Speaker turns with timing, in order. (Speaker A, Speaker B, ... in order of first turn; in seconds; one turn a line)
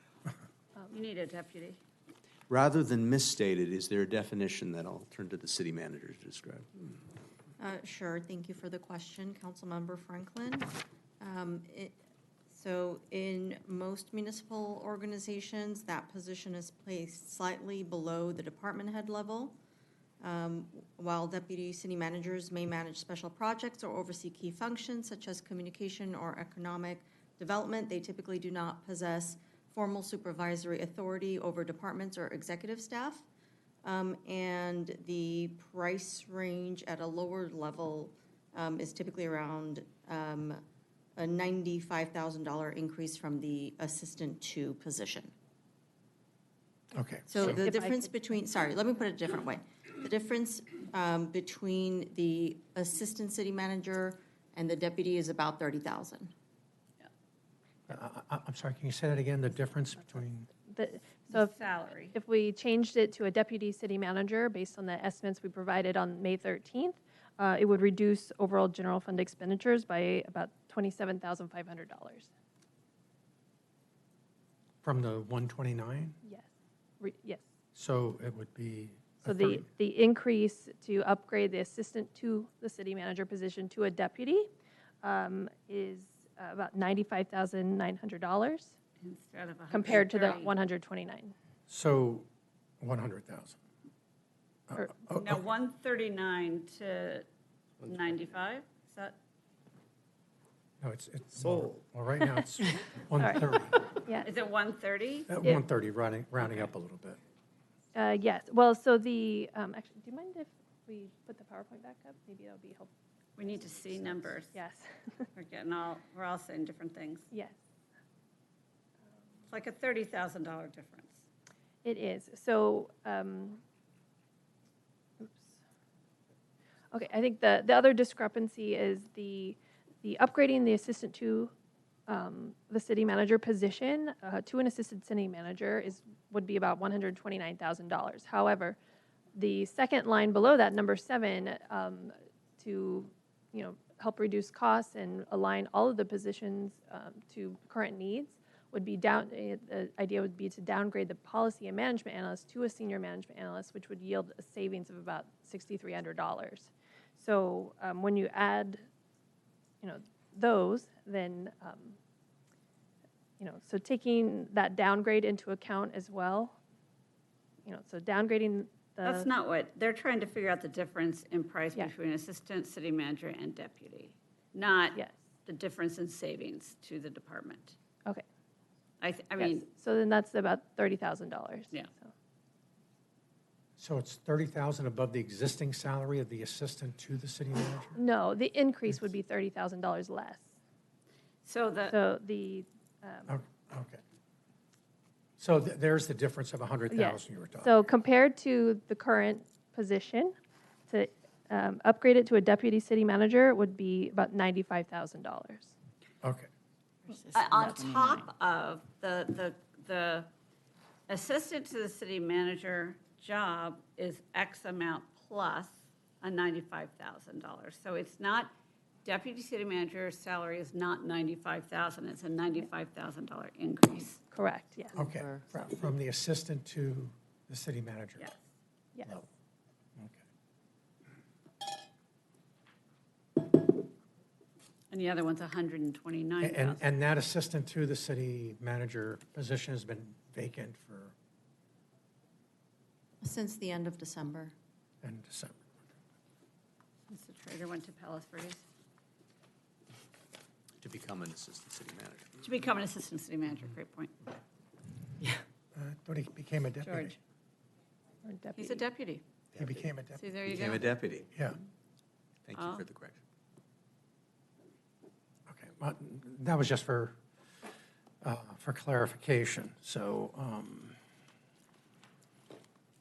Speaker A: 0.9-1.8
Speaker B: 2.5-7.0
Speaker C: 7.6-12.0
Speaker C: 12.5-19.6
Speaker C: 20.2-33.2
Speaker C: 33.8-40.6
Speaker C: 41.2-45.3
Speaker D: 46.9-47.7
Speaker C: 47.3-56.3
Speaker E: 47.6-48.1
Speaker D: 57.9-60.5
Speaker E: 60.6-61.5
Speaker A: 61.3-62.1
Speaker E: 62.1-72.3
Speaker D: 74.8-76.2
Speaker E: 77.0-77.4
Speaker D: 77.7-79.6
Speaker E: 79.2-84.5
Speaker E: 85.0-88.7
Speaker A: 89.0-90.5
Speaker E: 89.7-91.3
Speaker D: 91.7-92.3
Speaker D: 92.8-93.6
Speaker D: 94.7-95.4
Speaker A: 95.1-97.2
Speaker A: 97.8-99.2
Speaker D: 100.8-103.9
Speaker E: 103.2-104.3
Speaker A: 104.2-105.3
Speaker D: 105.3-107.2
Speaker E: 107.9-112.9
Speaker A: 113.4-114.5
Speaker E: 114.5-115.3
Speaker A: 115.3-117.3
Speaker E: 117.3-117.5
Speaker A: 119.5-121.2
Speaker E: 121.8-123.6
Speaker E: 126.9-131.5
Speaker E: 132.1-138.8
Speaker E: 139.3-158.8
Speaker E: 159.8-162.0
Speaker E: 163.4-166.6
Speaker E: 167.6-169.3
Speaker A: 169.0-177.8
Speaker A: 179.0-179.7
Speaker E: 179.4-182.1
Speaker D: 183.8-188.0
Speaker E: 187.9-190.5
Speaker A: 191.4-191.9
Speaker E: 191.8-193.3
Speaker D: 193.3-194.0
Speaker D: 195.4-197.7
Speaker E: 196.9-200.3
Speaker E: 200.9-205.7
Speaker D: 206.2-206.5
Speaker C: 207.1-208.3
Speaker A: 207.3-210.3
Speaker A: 211.1-218.5
Speaker A: 219.0-224.2
Speaker E: 224.3-225.1
Speaker D: 224.9-228.3
Speaker C: 225.0-225.4
Speaker E: 228.9-229.2
Speaker A: 234.9-236.8
Speaker D: 236.4-241.1
Speaker C: 243.2-244.5
Speaker D: 245.0-245.6
Speaker A: 247.1-248.6
Speaker B: 250.8-252.4
Speaker A: 252.4-254.3
Speaker D: 255.7-257.1
Speaker A: 256.8-257.1
Speaker E: 258.2-258.8
Speaker A: 258.6-259.2
Speaker B: 259.5-259.9
Speaker D: 259.6-260.2
Speaker A: 260.2-261.0
Speaker B: 260.4-261.3
Speaker D: 261.3-261.6
Speaker B: 262.5-263.2
Speaker A: 262.6-262.8
Speaker D: 265.5-267.1
Speaker D: 268.2-270.9